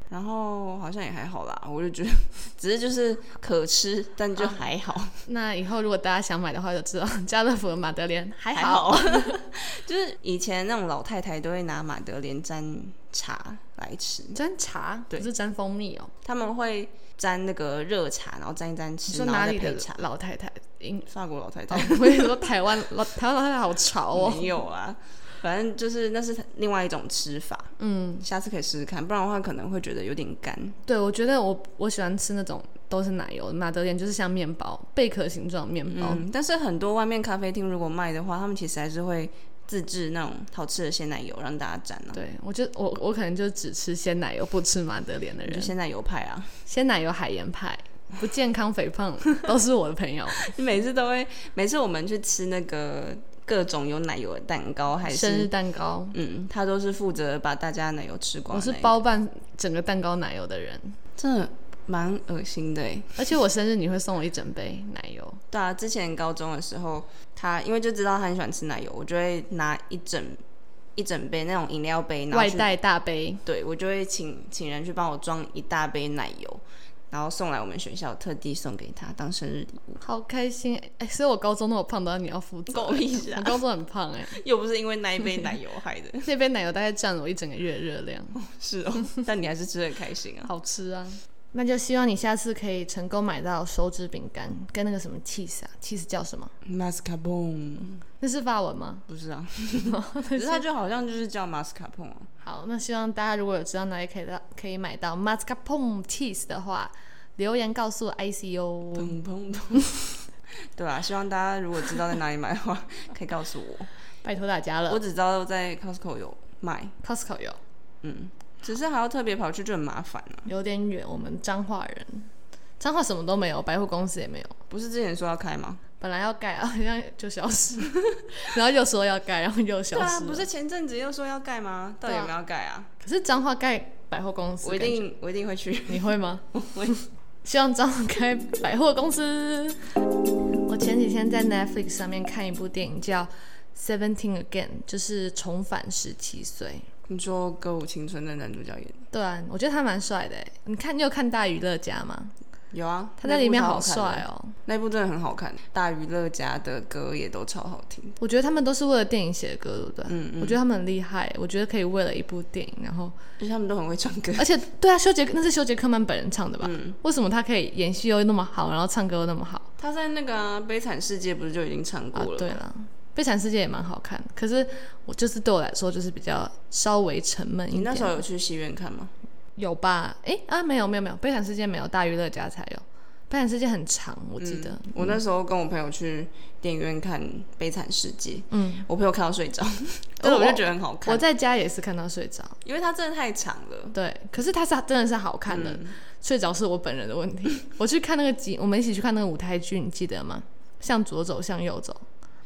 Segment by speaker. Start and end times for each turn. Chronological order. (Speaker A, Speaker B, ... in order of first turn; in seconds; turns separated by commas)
Speaker A: 0.1-5.2, Speaker B: 5.2-9.5, Speaker A: 8.5-14.4, Speaker B: 14.3-16.1, Speaker A: 16.2-20.0, Speaker B: 19.1-21.1, Speaker A: 21.1-22.4, Speaker B: 21.7-24.6, Speaker A: 24.1-30.8, Speaker B: 27.8-28.2, Speaker B: 30.9-36.2, Speaker A: 35.9-42.2, Speaker B: 42.1-45.7, Speaker A: 45.5-46.5, Speaker B: 46.7-50.5, Speaker A: 50.4-55.5, Speaker B: 55.0-56.1, Speaker A: 56.1-59.0, Speaker B: 58.5-61.0, Speaker A: 61.2-63.2, Speaker B: 63.2-65.4, Speaker A: 65.5-70.4, Speaker A: 71.0-72.7, Speaker B: 72.3-73.4, Speaker A: 73.5-80.0, Speaker B: 80.0-84.4, Speaker A: 82.7-83.6, Speaker A: 84.3-86.3, Speaker B: 86.2-88.4, Speaker A: 88.4-90.5, Speaker B: 90.4-96.5, Speaker A: 96.6-98.0, Speaker B: 98.2-99.1, Speaker A: 99.1-102.3, Speaker B: 99.8-100.6, Speaker B: 102.4-109.2, Speaker A: 109.0-109.9, Speaker A: 110.7-113.9, Speaker B: 114.2-115.0, Speaker A: 114.9-116.9, Speaker B: 117.0-117.6, Speaker A: 118.0-120.5, Speaker B: 120.5-124.6, Speaker A: 124.7-125.8, Speaker B: 126.0-130.5, Speaker A: 129.9-132.9, Speaker B: 132.1-132.3, Speaker B: 133.0-135.1, Speaker A: 134.6-136.9, Speaker B: 135.9-139.8, Speaker B: 140.7-146.8, Speaker A: 147.1-149.0, Speaker B: 149.1-152.3, Speaker A: 152.7-158.2, Speaker B: 153.2-154.6, Speaker B: 158.2-163.1, Speaker A: 160.1-160.6, Speaker A: 163.4-164.4, Speaker B: 164.4-169.7, Speaker A: 166.6-167.0, Speaker A: 169.8-172.6, Speaker B: 172.1-178.2, Speaker A: 177.7-179.1, Speaker B: 179.6-185.2, Speaker A: 184.4-191.2, Speaker B: 188.5-188.8, Speaker B: 190.2-192.6, Speaker A: 192.6-193.9, Speaker B: 193.9-202.0, Speaker A: 195.5-195.9